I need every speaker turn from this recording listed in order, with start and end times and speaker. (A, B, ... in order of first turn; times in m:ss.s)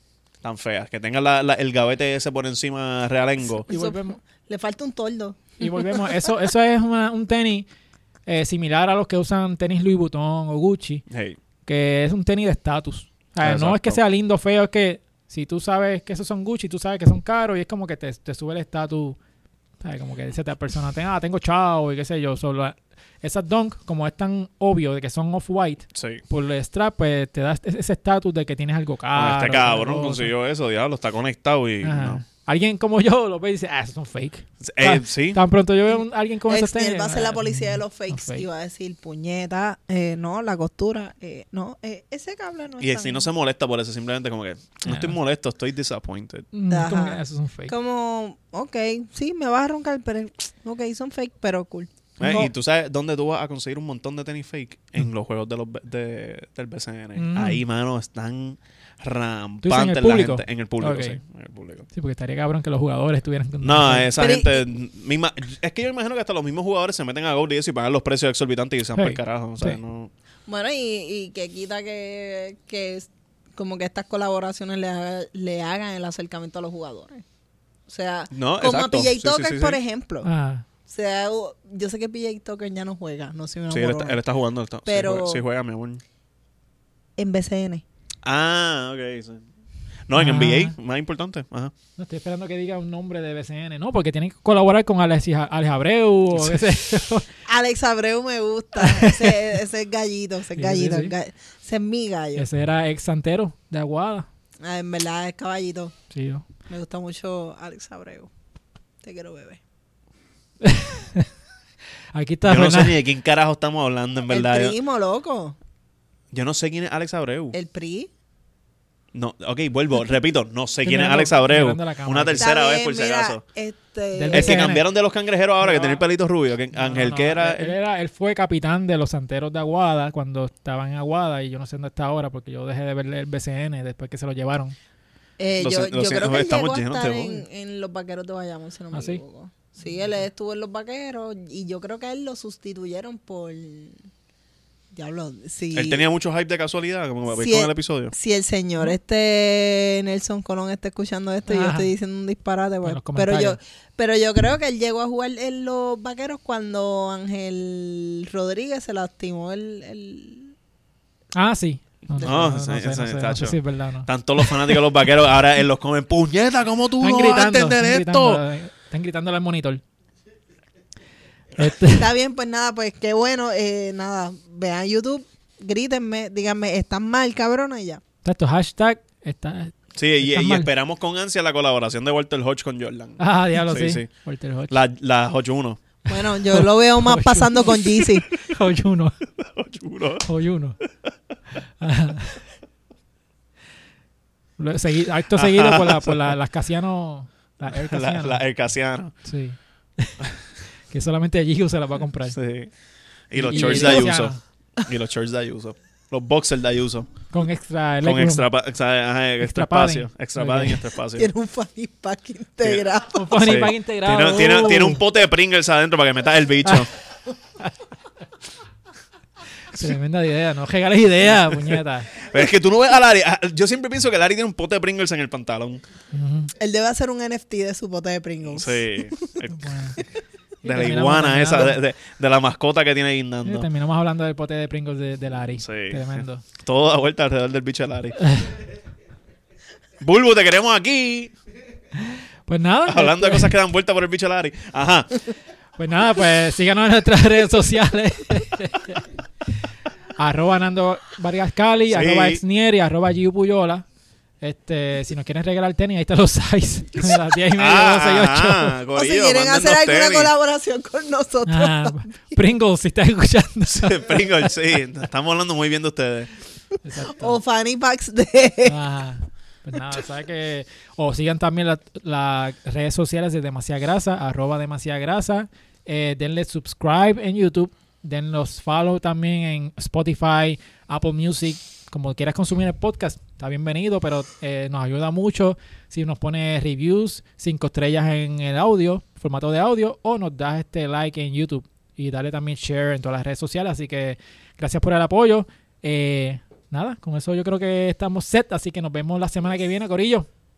0:00.4-0:03.7 A
0:03.5-0:06.0 B
0:03.7-0:04.2 C
0:05.6-0:07.7 C
0:08.2-0:11.0 C
0:11.1-0:11.4 A
0:11.6-0:19.2 C
0:13.4-0:14.0 A
0:19.8-0:30.3 C
0:25.9-0:26.2 A
0:29.1-0:32.2 A
0:31.8-0:38.5 C
0:34.6-0:35.4 A
0:35.9-0:43.3 B
0:42.8-0:46.5 A
0:44.8-0:45.2 C
0:46.5-0:47.7 C
0:46.7-0:51.9 B
0:52.2-1:01.8 A
0:52.2-0:52.5 C
0:57.2-0:57.6 C
0:59.6-1:01.2 C
1:01.9-1:04.1 C
1:03.6-1:10.1 A
1:04.2-1:04.6 B
1:09.0-1:09.8 C
1:10.5-1:17.2 B
1:17.9-1:20.3 B
1:18.3-1:19.8 A
1:20.2-1:20.6 C
1:20.9-1:24.2 B
1:23.7-1:26.0 A
1:24.8-1:25.4 B
1:27.2-1:27.8 B
1:28.2-1:29.4 A
1:30.1-1:31.7 A
1:30.1-1:30.7 C
1:32.0-1:37.3 C
1:37.5-1:42.5 B
1:38.8-1:39.4 C
1:40.5-1:41.1 C
1:42.4-1:44.3 C
1:44.6-1:45.9 B
1:46.1-1:46.4 C
1:46.7-1:48.3 B
1:49.0-1:49.6 B
1:50.6-1:51.3 C
1:52.1-1:53.0 C
1:52.5-1:54.7 A
1:54.3-1:55.6 B
1:56.3-1:57.6 A
1:57.5-1:58.1 B
1:59.1-2:03.4 A
2:00.8-2:02.5 C
2:02.4-2:04.7 B
2:04.1-2:04.8 C
2:04.3-2:07.8 A
2:05.6-2:06.0 C
2:06.7-2:14.8 C
2:15.4-2:24.0 B
2:15.6-2:17.4 A
2:18.9-2:19.2 C
2:19.8-2:20.1 C
2:24.9-2:26.0 B
2:25.7-2:28.1 A
2:27.3-2:40.5 B
2:31.5-2:31.9 C
2:32.8-2:33.6 C
2:41.3-2:44.9 C
2:42.2-2:48.4 A
2:47.0-2:49.8 C
2:51.6-2:52.1 C
2:51.9-2:58.0 B
2:58.2-3:00.7 C
2:59.9-3:04.1 A
3:03.2-3:04.8 C
3:04.7-3:05.8 A
3:06.1-3:08.3 B
3:06.5-3:09.2 C
3:09.4-3:10.2 A
3:10.2-3:10.8 C
3:11.8-3:12.4 C
3:14.6-3:18.4 C
3:15.3-3:16.3 A
3:17.7-3:19.1 A
3:19.2-3:22.4 C
3:22.3-3:22.7 A
3:23.3-3:27.1 A
3:23.4-3:24.4 C
3:23.5-3:24.1 B
3:27.3-3:28.4 C
3:28.0-3:31.3 A
3:29.4-3:30.8 C
3:31.2-3:33.4 B
3:33.1-3:35.0 C
3:33.3-3:36.9 A
3:39.7-3:42.1 C
3:41.5-3:45.8 A
3:46.1-3:46.5 C
3:46.6-3:49.2 B
3:48.4-3:49.8 A
3:49.5-3:50.0 C
3:50.6-3:51.8 C
3:50.6-3:53.7 A
3:53.4-3:56.4 C
3:55.6-3:58.2 A
3:58.2-3:58.5 C
4:00.0-4:01.3 A
4:01.9-4:03.5 C
4:02.9-4:05.2 A
4:05.8-4:09.0 C
4:10.2-4:13.8 C
4:11.9-4:12.4 A
4:14.4-4:18.8 C
4:17.5-4:20.3 A
4:19.0-4:22.2 B
4:21.5-4:24.5 C
4:23.7-4:26.3 A
4:26.8-4:27.4 C
4:27.2-4:28.8 B
4:28.6-5:00.3 C